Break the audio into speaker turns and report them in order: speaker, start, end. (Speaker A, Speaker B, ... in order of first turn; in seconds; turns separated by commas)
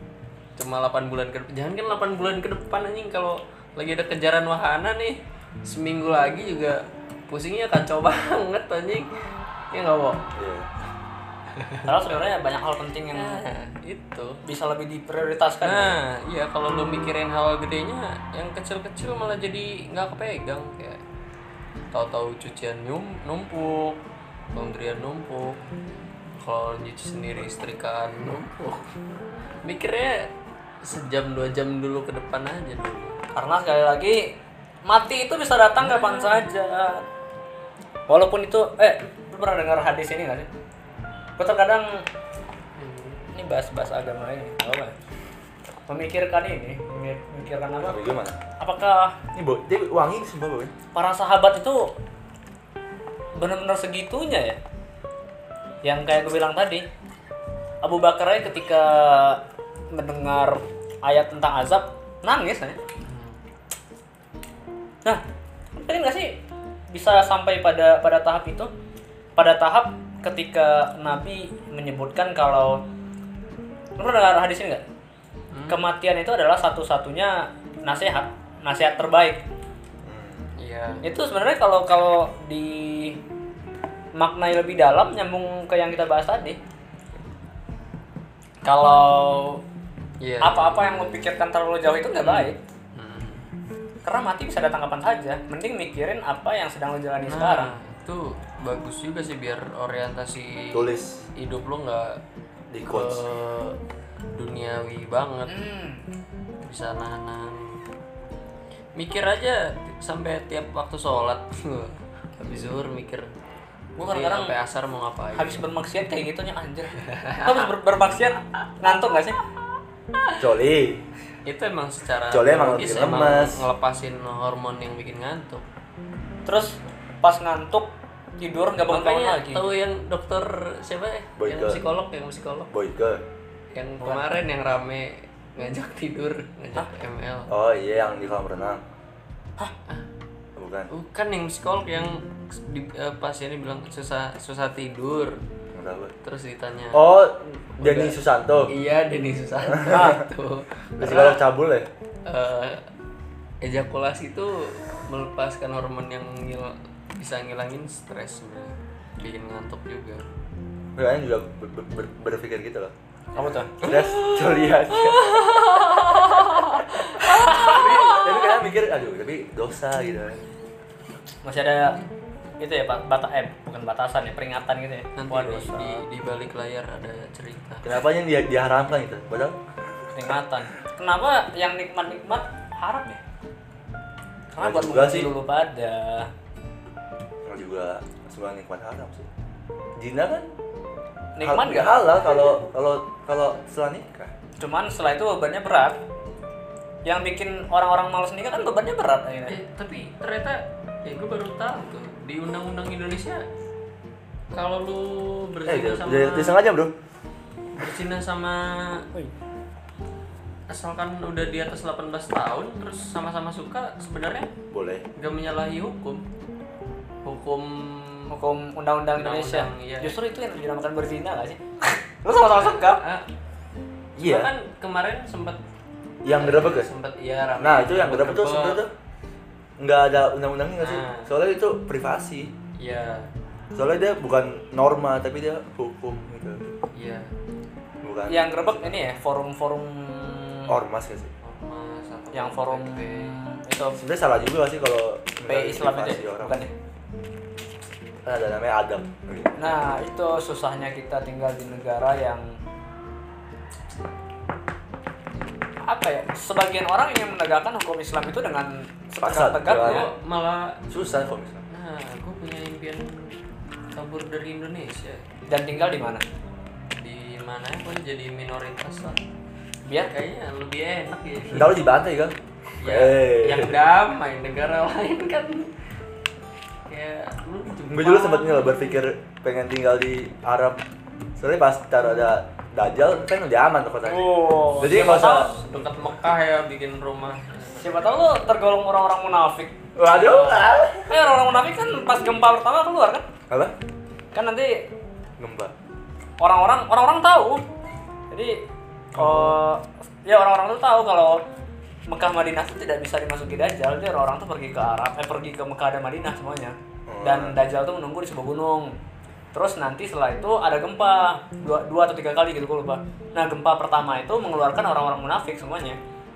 Speaker A: 0.6-9.1, Speaker A: 9.7-10.2, Speaker B: 10.3-10.7, Speaker A: 11.5-11.9, Speaker C: 11.8-13.4, Speaker A: 13.1-14.4, Speaker C: 14.4-15.9, Speaker A: 15.6-21.0, Speaker A: 21.9-24.0, Speaker A: 24.5-25.6, Speaker A: 26.4-28.9, Speaker A: 29.6-30.3, Speaker A: 30.8-33.2, Speaker C: 33.3-34.3, Speaker C: 34.9-37.1, Speaker A: 35.8-36.4, Speaker C: 38.1-40.5, Speaker C: 41.4-41.9, Speaker A: 42.8-43.3, Speaker C: 43.3-44.9, Speaker C: 45.9-48.0, Speaker B: 47.8-48.4, Speaker C: 48.6-49.1, Speaker B: 49.3-50.7, Speaker C: 50.9-51.9, Speaker C: 53.4-54.6, Speaker C: 55.8-56.9, Speaker C: 57.8-59.4, Speaker C: 59.9-62.8, Speaker A: 63.0-63.4, Speaker C: 65.7-66.4, Speaker C: 66.9-68.7, Speaker C: 69.4-72.8, Speaker C: 74.0-74.8, Speaker A: 75.5-75.8, Speaker C: 75.7-79.4, Speaker B: 80.0-80.5, Speaker A: 80.6-81.0, Speaker C: 81.0-83.2, Speaker C: 84.2-86.6, Speaker C: 88.6-89.6, Speaker A: 90.2-91.2, Speaker C: 90.4-92.6, Speaker A: 92.2-93.5, Speaker C: 94.0-97.7, Speaker A: 97.3-102.2, Speaker B: 100.7-101.2, Speaker B: 102.7-103.2, Speaker A: 102.8-103.8, Speaker A: 104.3-105.6, Speaker C: 105.5-106.0, Speaker A: 106.6-107.8, Speaker A: 108.9-113.3, Speaker C: 114.0-114.5, Speaker A: 114.0-115.7, Speaker C: 115.3-119.3, Speaker A: 117.0-117.7, Speaker B: 120.4-121.0, Speaker A: 121.5-125.7, Speaker B: 122.3-123.7, Speaker C: 126.5-129.7, Speaker A: 128.9-132.7, Speaker B: 131.4-131.8, Speaker B: 132.7-133.2, Speaker A: 133.7-137.5, Speaker B: 137.5-138.8, Speaker B: 140.6-140.9, Speaker A: 140.9-145.4, Speaker B: 145.7-146.1, Speaker A: 146.2-147.0, Speaker B: 146.9-148.7, Speaker A: 147.8-151.4, Speaker C: 149.8-150.2, Speaker B: 151.0-151.9, Speaker A: 152.2-152.9, Speaker A: 153.6-160.2, Speaker B: 160.9-162.9, Speaker C: 163.3-163.8, Speaker B: 163.8-165.3, Speaker A: 163.8-168.3, Speaker C: 167.2-167.8, Speaker B: 167.4-170.4, Speaker C: 171.4-172.0, Speaker C: 172.6-176.0, Speaker A: 175.2-177.9, Speaker B: 177.8-179.6, Speaker C: 180.1-183.2, Speaker C: 184.5-186.3, Speaker B: 184.6-185.3, Speaker B: 187.4-189.3, Speaker B: 190.0-190.5, Speaker C: 191.4-192.0, Speaker B: 191.4-194.3, Speaker C: 194.6-196.0, Speaker C: 197.0-199.6, Speaker A: 199.5-203.4, Speaker A: 204.5-206.6, Speaker B: 205.7-206.9, Speaker A: 207.7-209.1, Speaker A: 210.7-214.5, Speaker B: 214.7-215.0, Speaker A: 215.2-216.2, Speaker A: 217.2-218.3, Speaker C: 218.3-223.0, Speaker A: 219.2-220.2, Speaker A: 222.4-223.3, Speaker A: 224.1-225.6, Speaker B: 224.2-224.5, Speaker B: 226.2-226.9, Speaker A: 226.3-228.8, Speaker B: 227.6-228.9, Speaker B: 229.8-232.5, Speaker A: 230.8-231.3, Speaker A: 232.8-233.3, Speaker B: 233.7-236.7, Speaker A: 236.9-237.3, Speaker B: 238.0-239.0, Speaker C: 238.3-240.7, Speaker B: 240.7-241.3, Speaker A: 241.4-243.3, Speaker C: 242.3-244.0, Speaker B: 244.0-246.7, Speaker C: 245.4-246.7, Speaker B: 248.2-250.0, Speaker C: 249.6-252.5, Speaker C: 255.8-260.1, Speaker B: 259.2-260.1, Speaker A: 259.8-260.8, Speaker B: 260.9-261.6, Speaker A: 261.7-263.3, Speaker A: 263.9-265.2, Speaker C: 265.5-266.2, Speaker A: 266.9-269.2, Speaker C: 269.8-270.1, Speaker A: 270.1-271.8, Speaker B: 271.5-273.8, Speaker A: 272.8-275.7, Speaker A: 276.9-279.0, Speaker B: 277.9-280.8, Speaker B: 281.4-285.5, Speaker C: 284.0-285.6, Speaker A: 284.9-288.3, Speaker C: 287.8-290.4, Speaker B: 289.9-291.1, Speaker A: 290.1-290.7, Speaker C: 291.0-293.3, Speaker B: 293.5-293.7, Speaker C: 294.3-294.9, Speaker B: 295.4-295.7, Speaker C: 296.4-297.6, Speaker C: 298.3-298.6, Speaker C: 299.1-301.4, Speaker B: 299.2-299.5, Speaker C: 302.1-308.9, Speaker B: 307.1-307.6, Speaker C: 309.5-316.0